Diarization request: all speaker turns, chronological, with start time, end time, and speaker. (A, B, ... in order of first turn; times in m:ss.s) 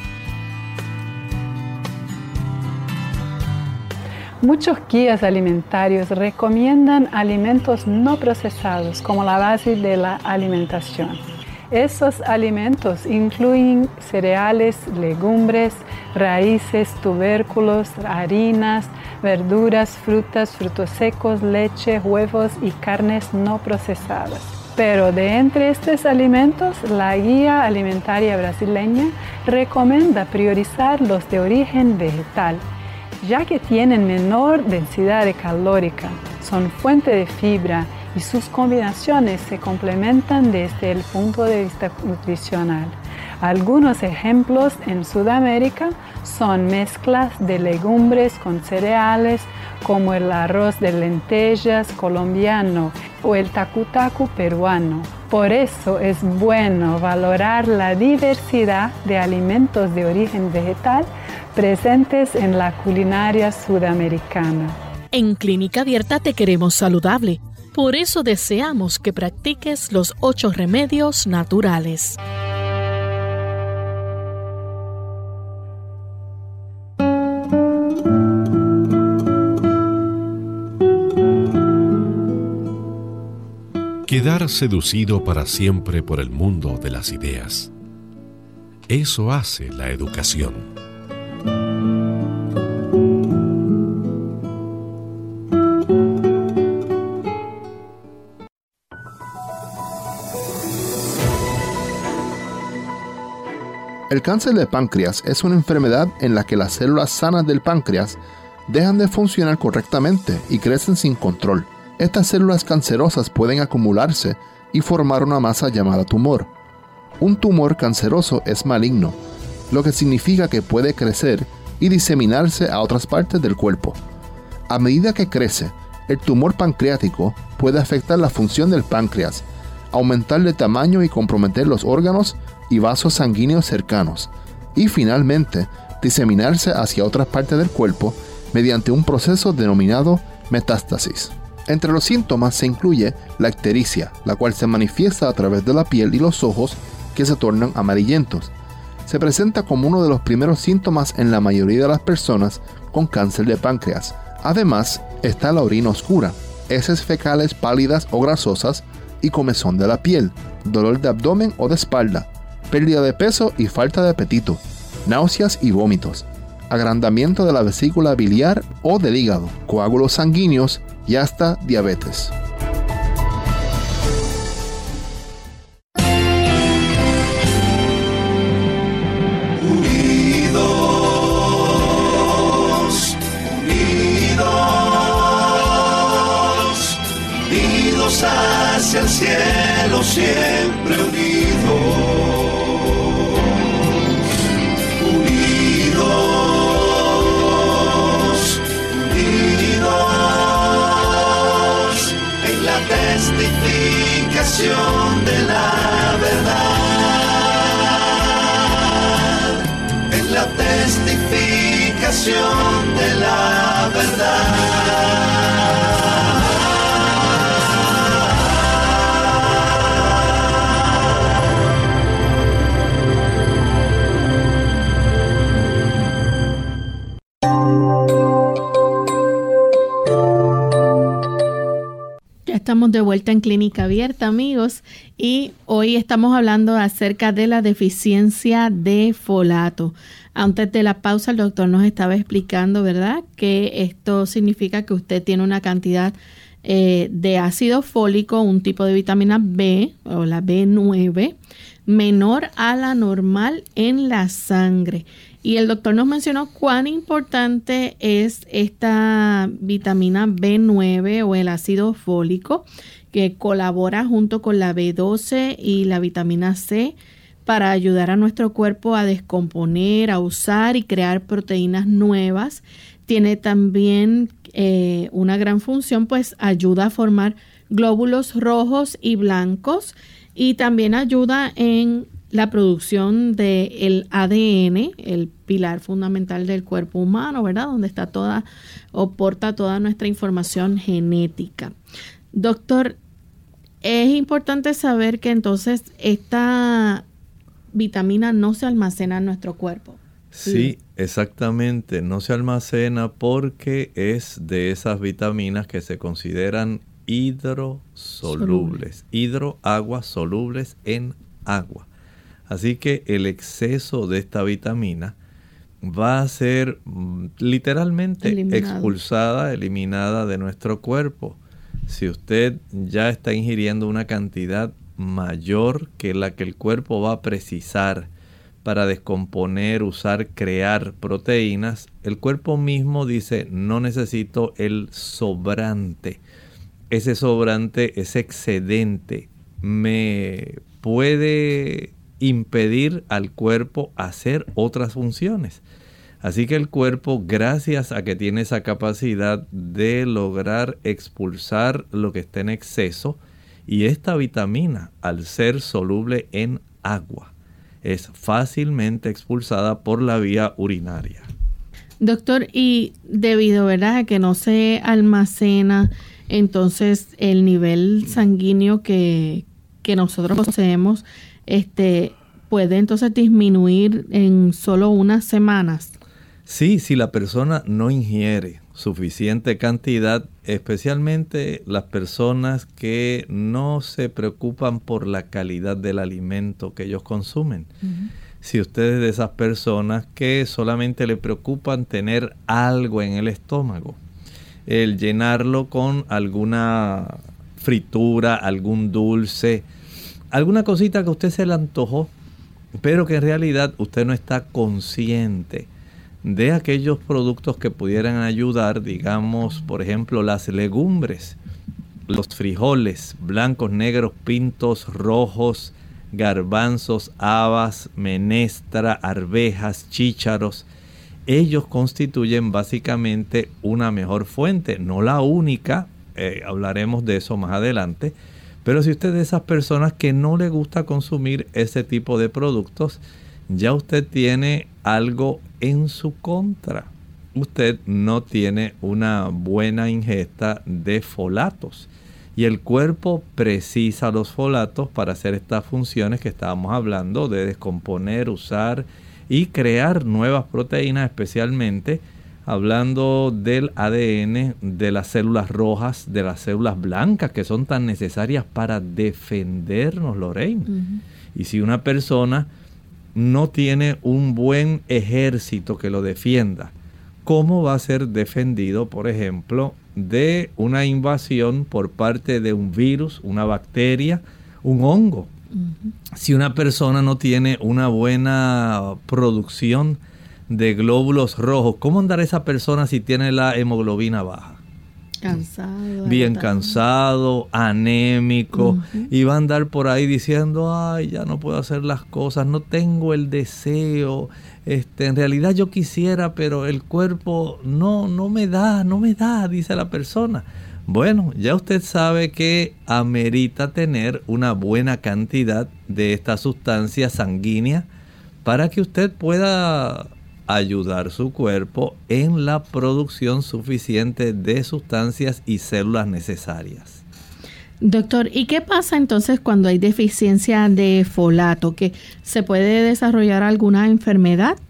0:04.4-0:32.6 A
0:33.2-1:04.8 A
1:05.1-1:12.2 B
1:24.1-1:27.7 C
1:28.9-1:30.7 C
1:44.1-1:56.5 D
1:57.2-1:59.2 D
1:59.7-2:04.0 D
2:04.7-2:28.5 D
2:29.0-2:52.3 D
2:59.8-3:01.5 E
3:03.8-3:05.4 E
3:07.5-3:12.2 E
3:07.9-3:08.1 F
3:08.7-3:11.6 F
3:15.4-3:17.2 E
3:19.2-3:20.9 E
3:22.4-3:26.4 F
3:22.6-3:23.3 E
3:24.0-3:27.0 E
3:30.1-3:34.3 F
3:32.0-3:34.1 E
3:52.4-4:51.7 B
4:52.3-4:53.0 B
4:53.8-4:57.0 B
4:57.7-5:00.7 B
5:00.3-5:11.8 F
5:08.2-5:08.8 B
5:12.5-5:15.2 F
5:15.8-5:28.1 F
5:18.2-5:18.9 B
5:28.6-5:36.2 F
5:36.9-5:45.6 F
5:46.2-5:57.3 F
5:57.8-6:01.2 F
6:02.0-6:15.9 B
6:16.5-6:27.7 F
6:27.8-6:28.1 B
6:28.4-6:34.0 F
6:34.6-6:39.6 F
6:40.3-6:42.1 F
6:42.8-6:45.7 F
6:46.2-6:51.4 F
6:52.1-7:00.6 F
7:01.3-7:40.7 F
7:40.7-7:41.0 B
7:41.3-7:42.5 F
7:43.1-7:46.7 F
7:47.2-7:55.3 F
7:55.6-7:55.9 B
7:56.1-8:04.6 F
8:05.2-8:06.8 B
8:06.0-8:27.9 F
8:08.5-8:09.1 B
8:28.4-8:37.0 F
8:37.8-8:44.6 B